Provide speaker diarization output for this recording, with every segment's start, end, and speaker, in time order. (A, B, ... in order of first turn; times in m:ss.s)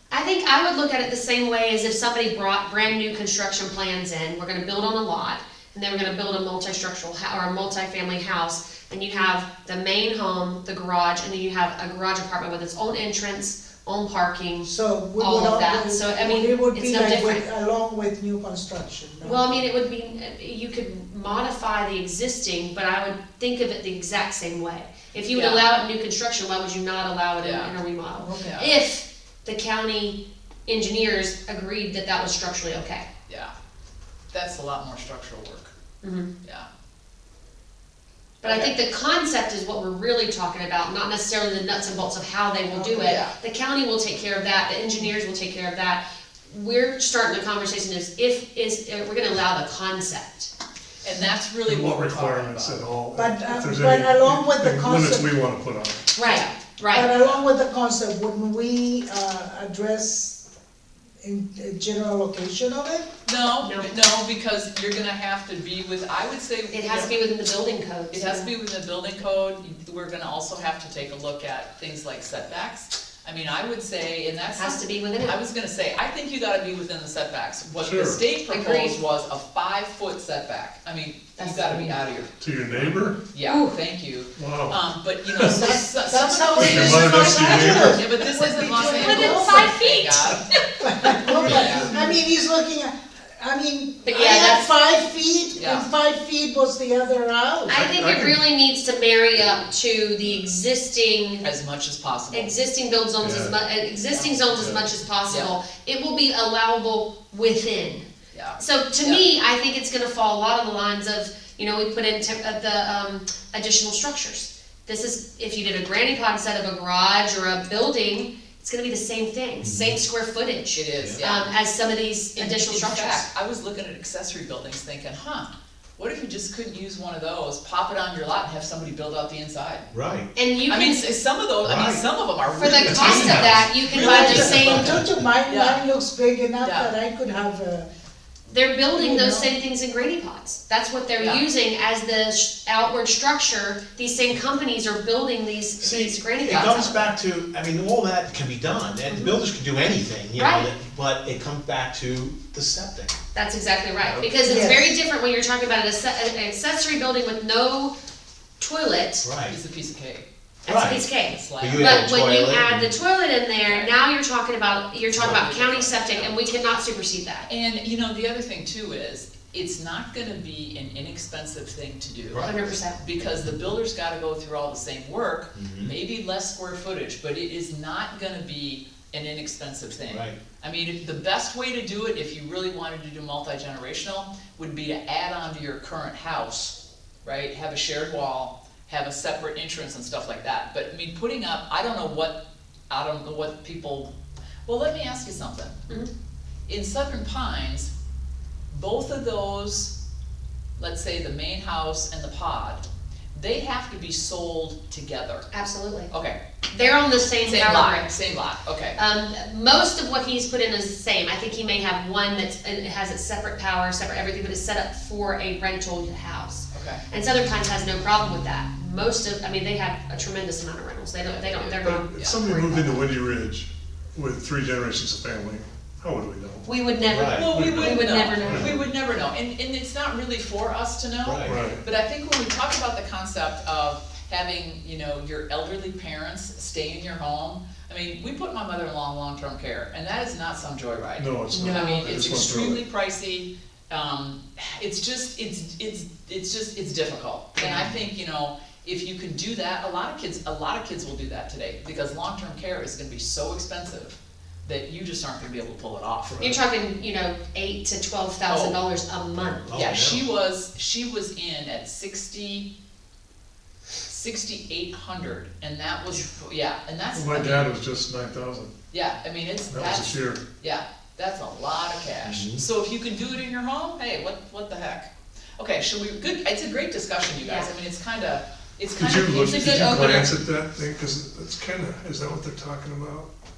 0:00.1-0:17.4 A
0:14.6-0:19.7 B
0:19.2-0:33.1 A
0:25.3-0:25.7 C
0:27.4-0:27.8 C
0:28.2-0:28.6 B
0:28.4-0:28.8 C
0:33.3-0:33.5 C
0:34.3-0:35.7 C
0:36.0-0:36.3 A
0:38.4-0:50.5 A
0:38.4-0:38.7 C
0:42.7-0:43.2 B
0:43.0-0:43.3 C
0:51.0-0:52.8 C
0:51.6-0:56.1 D
0:53.1-0:55.3 B
0:56.1-0:57.1 A
0:56.2-0:57.4 C
0:56.9-1:00.4 B
1:01.2-1:03.1 B
1:03.2-1:07.1 C
1:03.6-1:04.0 A
1:06.7-1:08.5 A
1:08.1-1:22.3 C
1:14.6-1:15.4 A
1:17.8-1:18.2 D
1:18.5-1:19.0 A
1:21.4-1:22.0 A
1:22.4-1:23.2 D
1:22.8-1:30.4 C
1:23.4-1:23.8 A
1:24.4-1:24.8 D
1:25.3-1:25.7 D
1:25.5-1:29.7 B
1:26.5-1:28.1 D
1:28.7-1:30.4 A
1:30.8-1:37.8 B
1:31.1-1:31.7 A
1:31.3-1:32.2 D
1:31.3-1:31.9 C
1:34.0-1:34.7 A
1:35.5-1:35.9 C
1:37.7-1:41.4 A
1:37.7-1:38.4 D
1:41.4-1:42.6 C
1:42.3-1:48.0 A
1:43.2-1:43.6 D
1:44.1-1:44.7 C
1:44.5-1:44.9 D
1:45.3-1:45.5 C
1:48.3-1:49.2 C
1:48.6-2:03.2 A
1:59.6-2:00.0 E
2:00.7-2:01.5 C
2:02.4-2:09.9 C
2:09.9-2:10.3 E
2:10.3-2:11.1 A
2:10.7-2:15.8 C
2:11.6-2:12.0 E
2:12.5-2:15.0 A
2:12.8-2:13.6 E
2:13.0-2:13.6 D
2:14.0-2:17.9 B
2:16.6-2:16.9 C
2:18.5-2:27.1 A
2:18.9-2:19.5 B
2:25.8-2:33.1 E
2:29.1-2:29.4 A
2:30.4-2:30.7 A
2:33.3-2:37.9 A
2:34.4-2:34.9 B
2:38.6-2:39.3 A
2:39.2-2:39.6 E
2:39.5-2:40.2 C
2:40.6-2:41.0 E
2:40.7-2:47.5 A
2:41.2-2:42.0 C
2:41.6-2:42.9 E
2:43.6-2:43.9 C
2:45.1-2:46.4 C
2:45.2-2:45.4 E
2:47.5-3:14.1 C
2:52.3-2:52.6 E
2:52.4-2:53.0 A
2:55.5-2:55.9 E
3:00.1-3:00.4 E
3:14.6-3:15.8 C
3:16.7-3:17.9 C
3:18.7-3:19.9 C
3:20.8-3:25.5 C
3:25.5-3:26.1 A
3:26.1-3:29.0 C
3:26.7-3:28.2 A
3:29.0-3:43.0 A
3:36.7-3:37.0 C
3:41.2-3:42.5 C
3:41.8-3:46.7 D
3:46.6-3:48.8 A
3:47.0-3:47.5 E
3:47.3-4:16.4 C
3:47.5-3:48.8 D
3:51.2-3:51.6 E
3:51.4-3:51.8 D
4:01.2-4:02.8 D
4:01.5-4:02.1 A
4:07.6-4:08.0 A
4:16.4-4:19.8 A
4:18.5-4:18.8 C
4:19.6-4:20.2 E
4:19.7-4:22.7 C
4:24.1-4:27.7 C
4:27.1-4:28.7 D
4:28.9-4:40.2 C
4:29.7-4:30.4 D
4:32.2-4:32.6 E
4:37.4-4:37.7 A
4:39.0-4:43.3 D
4:39.4-4:40.3 A